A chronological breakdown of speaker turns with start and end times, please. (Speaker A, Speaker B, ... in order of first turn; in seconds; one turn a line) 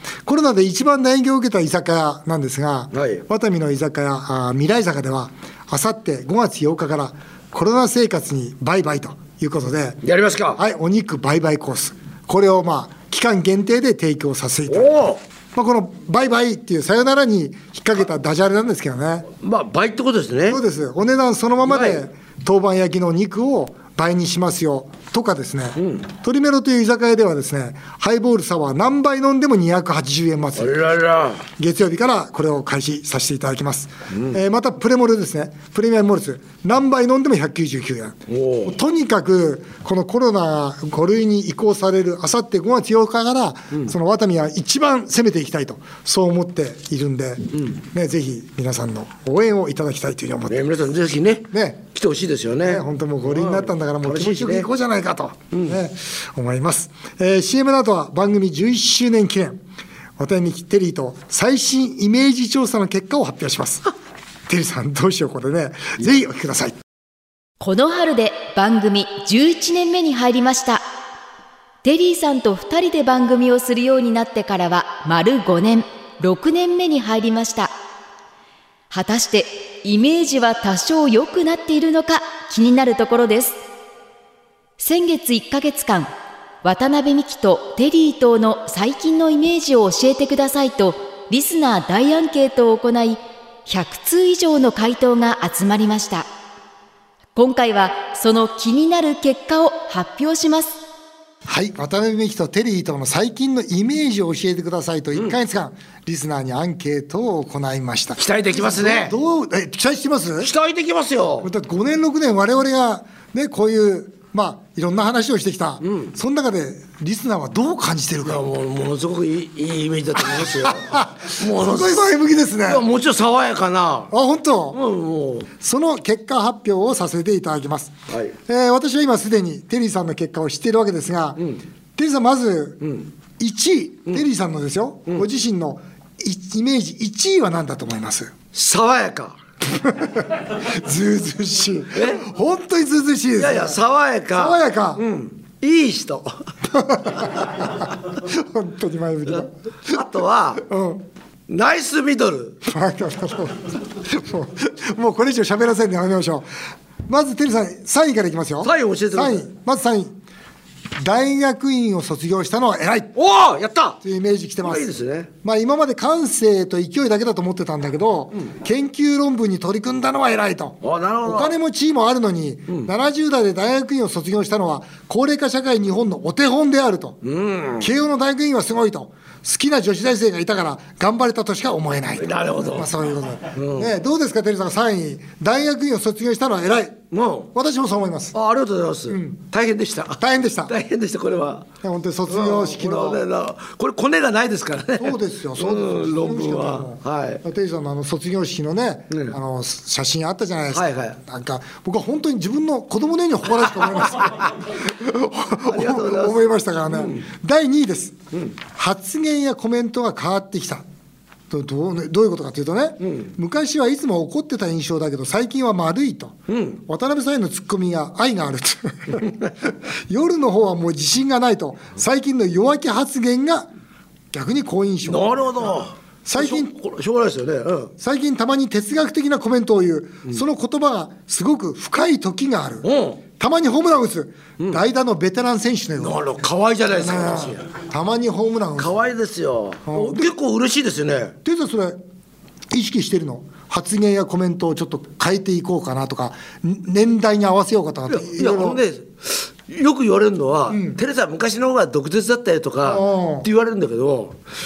Speaker A: 0.2-10.0
Speaker B: 2.9-3.2
Speaker B: 10.0-10.6
Speaker A: 10.5-19.3
Speaker B: 14.7-15.2
Speaker B: 19.3-20.6
Speaker A: 20.5-30.8
Speaker B: 21.6-22.0
Speaker B: 25.8-26.0
Speaker B: 30.6-31.4
Speaker A: 31.6-50.7
Speaker B: 34.1-34.4
Speaker B: 38.3-38.7
Speaker B: 50.5-54.7
Speaker A: 51.5-51.8
Speaker A: 52.6-59.6
Speaker A: 60.2-63.9
Speaker A: 64.5-66.8
Speaker C: 67.6-70.8
Speaker C: 71.8-77.7
Speaker C: 78.9-83.6
Speaker C: 84.8-86.1
Speaker C: 86.6-96.3
Speaker C: 97.3-100.8
Speaker A: 101.5-110.5
Speaker B: 108.2-109.2
Speaker B: 110.4-111.5
Speaker A: 111.4-118.5
Speaker B: 115.8-116.1
Speaker B: 118.2-122.1
Speaker A: 120.3-122.8
Speaker B: 122.6-124.1
Speaker A: 124.1-124.8
Speaker B: 124.7-125.5
Speaker A: 125.6-127.9
Speaker B: 128.1-128.3
Speaker A: 128.4-132.8
Speaker B: 132.8-133.1
Speaker A: 133.4-138.3
Speaker B: 138.5-139.4
Speaker A: 139.8-143.8
Speaker B: 141.9-142.2
Speaker B: 143.3-146.5
Speaker A: 144.3-145.0
Speaker A: 146.7-150.0
Speaker B: 149.3-150.6
Speaker A: 150.6-151.0
Speaker B: 151.5-152.6
Speaker A: 152.6-156.5
Speaker A: 157.1-160.1
Speaker B: 158.6-159.5
Speaker A: 161.0-163.1
Speaker B: 163.2-164.0
Speaker A: 164.0-164.9
Speaker B: 164.6-165.3
Speaker A: 165.4-177.2
Speaker B: 170.8-171.5
Speaker B: 177.2-177.9
Speaker A: 177.8-187.0
Speaker B: 182.2-182.9
Speaker B: 183.5-183.9
Speaker B: 187.1-187.5
Speaker A: 187.5-188.3
Speaker B: 188.3-191.7
Speaker A: 189.1-189.4
Speaker A: 190.2-190.7
Speaker A: 191.8-193.2
Speaker B: 192.3-197.4
Speaker A: 195.0-210.8
Speaker B: 199.1-199.4
Speaker B: 200.7-201.2
Speaker B: 203.7-204.5
Speaker B: 205.6-207.2
Speaker A: 211.5-219.4
Speaker B: 216.5-216.8
Speaker A: 220.1-223.7
Speaker A: 224.3-225.4
Speaker B: 225.0-227.9
Speaker A: 226.2-226.7
Speaker A: 228.0-232.9
Speaker B: 232.8-233.2
Speaker A: 233.4-236.2
Speaker B: 236.0-237.6
Speaker A: 236.9-239.0
Speaker B: 238.8-241.3
Speaker A: 239.8-240.3
Speaker A: 241.4-242.0
Speaker A: 242.7-248.8
Speaker B: 248.1-254.4
Speaker A: 250.7-251.0
Speaker A: 252.8-253.5